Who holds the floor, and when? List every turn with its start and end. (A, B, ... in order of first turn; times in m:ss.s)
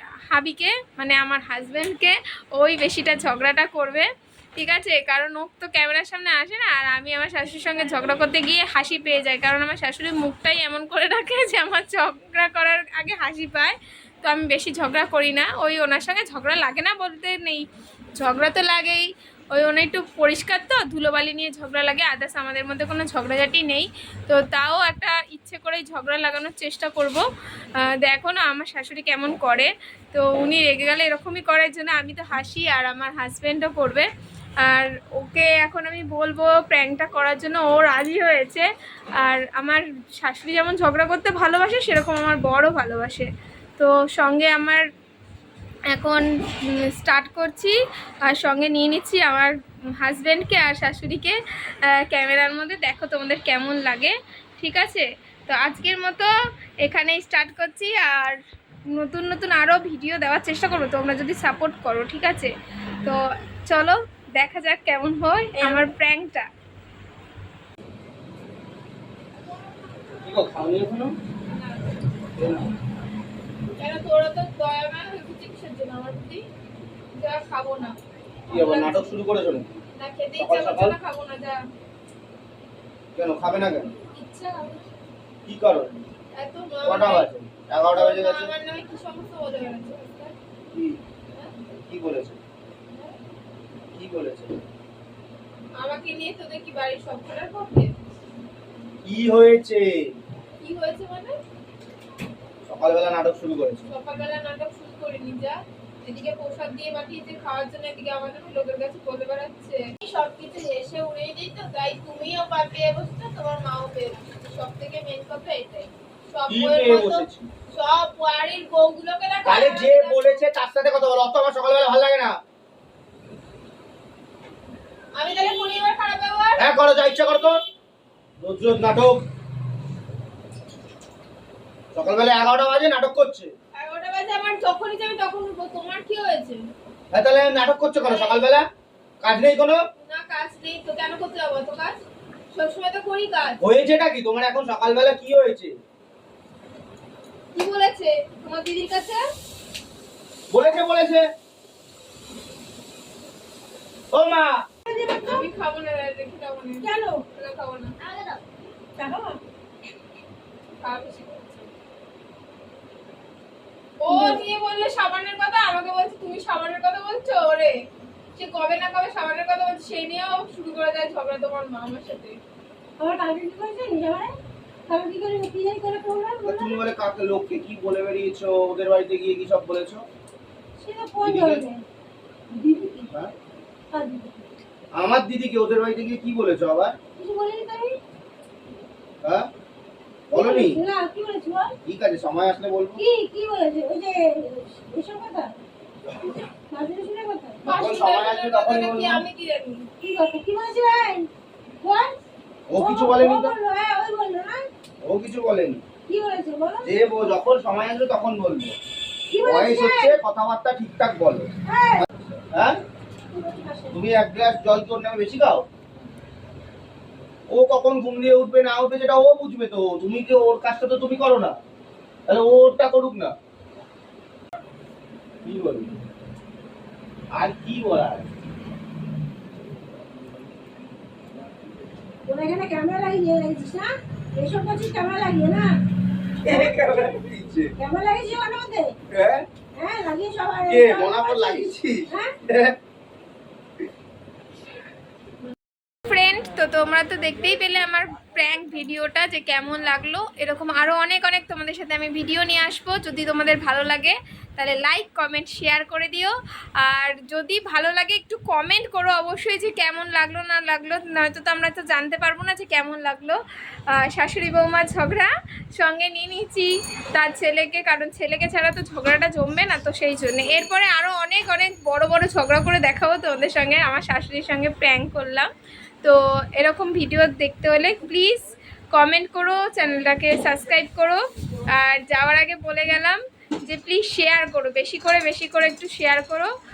0:00.3-0:17.6 A
0:18.2-0:27.2 A
0:27.8-0:34.1 A
0:34.6-0:38.7 A
0:39.2-0:44.8 A
0:45.9-0:51.4 A
0:51.9-0:56.3 A
0:56.8-0:58.4 A
0:58.9-1:02.5 A
1:03.0-1:06.5 A
1:10.2-1:11.2 B
1:11.5-1:12.0 A
1:12.4-1:12.7 B
1:13.7-1:16.4 A
1:17.2-1:18.0 A
1:18.5-1:19.1 A
1:18.5-1:19.7 B
1:20.0-1:21.6 A
1:20.4-1:21.0 B
1:23.1-1:23.9 B
1:24.2-1:24.8 A
1:25.4-1:26.0 B
1:26.4-1:27.3 A
1:26.8-1:28.5 B
1:27.9-1:30.3 A
1:30.7-1:31.0 B
1:31.8-1:32.4 B
1:33.9-1:34.6 B
1:35.8-1:37.9 A
1:39.0-1:40.0 B
1:40.6-1:41.4 A
1:42.6-1:43.9 B
1:43.9-2:00.4 A
1:56.5-1:57.5 B
1:59.4-2:02.4 B
2:05.2-2:06.6 A
2:06.6-2:07.6 B
2:08.4-2:09.2 B
2:11.9-2:13.5 B
2:13.8-2:16.6 A
2:17.1-2:18.6 B
2:18.0-2:18.5 A
2:19.2-2:19.8 B
2:20.0-2:22.0 A
2:22.5-2:23.6 A
2:23.6-2:25.7 B
2:27.5-2:29.2 A
2:30.5-2:31.2 B
2:34.1-2:34.6 B
2:34.9-2:35.5 C
2:35.2-2:38.0 A
2:36.8-2:37.2 C
2:38.1-2:38.4 C
2:39.0-2:39.4 C
2:40.8-2:41.7 A
2:44.0-2:47.7 A
2:44.1-2:44.4 C
2:48.3-2:52.4 A
2:53.0-2:54.3 C
2:54.9-2:56.8 C
2:56.4-3:00.0 B
3:00.8-3:01.8 C
3:01.2-3:01.6 B
3:02.5-3:03.1 C
3:03.9-3:04.4 C
3:04.9-3:07.0 B
3:07.2-3:08.0 C
3:09.2-3:09.5 B
3:10.3-3:10.8 B
3:10.3-3:11.7 C
3:11.8-3:13.0 B
3:13.0-3:15.6 C
3:16.5-3:17.7 C
3:17.6-3:19.9 A
3:17.7-3:19.2 B
3:20.0-3:21.3 C
3:21.8-3:22.2 C
3:22.7-3:23.6 B
3:22.7-3:24.7 C
3:25.0-3:25.8 B
3:26.1-3:26.9 C
3:26.8-3:28.7 B
3:29.3-3:30.2 C
3:29.4-3:31.5 B
3:31.6-3:32.1 C
3:32.5-3:32.8 B
3:33.3-3:34.0 C
3:33.9-3:35.6 B
3:37.5-3:41.6 B
3:42.3-3:43.3 B
3:45.4-3:46.0 B
3:47.3-3:48.3 B
3:52.2-3:55.7 C
3:56.4-3:57.7 B
3:57.8-3:59.0 C
3:59.1-3:59.4 B
3:59.8-4:02.3 C
4:00.7-4:02.8 B
4:06.1-4:23.4 A
4:24.0-4:35.5 A
4:36.0-4:46.5 A